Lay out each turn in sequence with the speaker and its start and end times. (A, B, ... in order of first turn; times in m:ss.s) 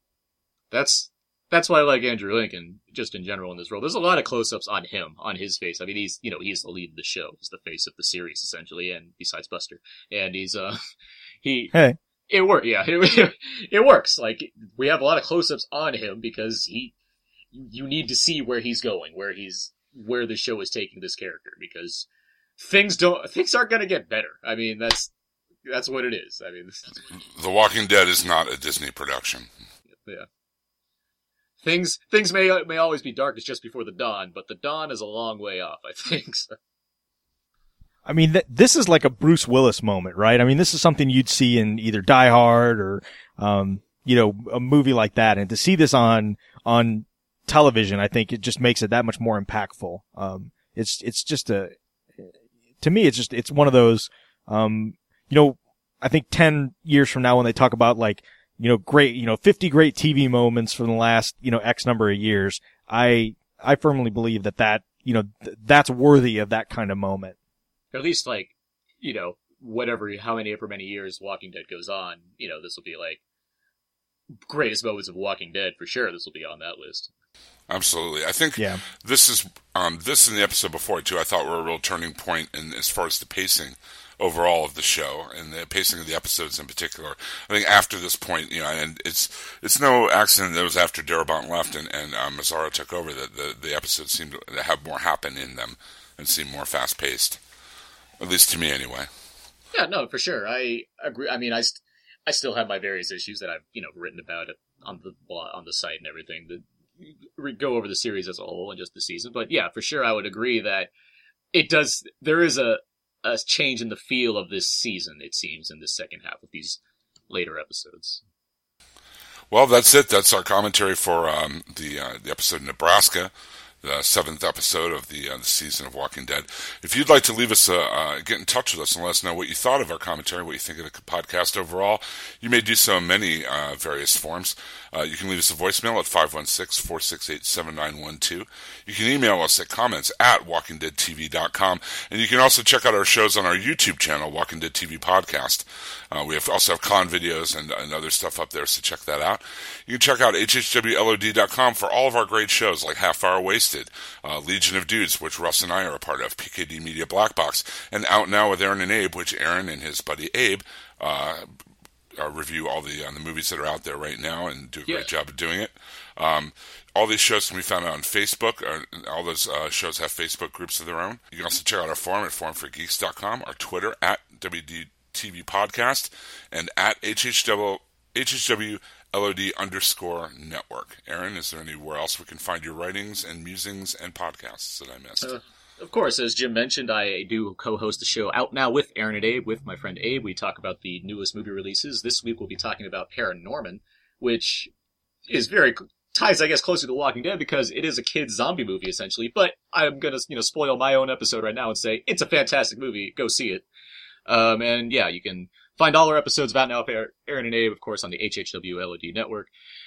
0:00.7-0:10.8 A
0:11.4-0:11.7 A
0:12.3-0:17.0 A
0:17.5-0:22.1 A
0:22.6-0:25.1 A
0:25.7-0:27.1 A
0:27.3-0:29.5 B
0:31.6-0:36.6 A
0:38.1-0:52.3 C
0:52.8-1:07.4 C
1:07.9-1:13.2 A
1:14.4-1:17.1 A
1:17.7-1:37.4 B
1:18.6-1:18.8 C
1:38.2-1:39.1 B
1:39.7-1:50.9 A
1:51.5-1:58.2 A
1:59.5-2:03.3 B
2:03.8-2:41.5 B
2:42.2-3:05.4 B
3:05.2-3:14.7 A
3:15.3-3:23.6 A
3:24.3-3:29.5 A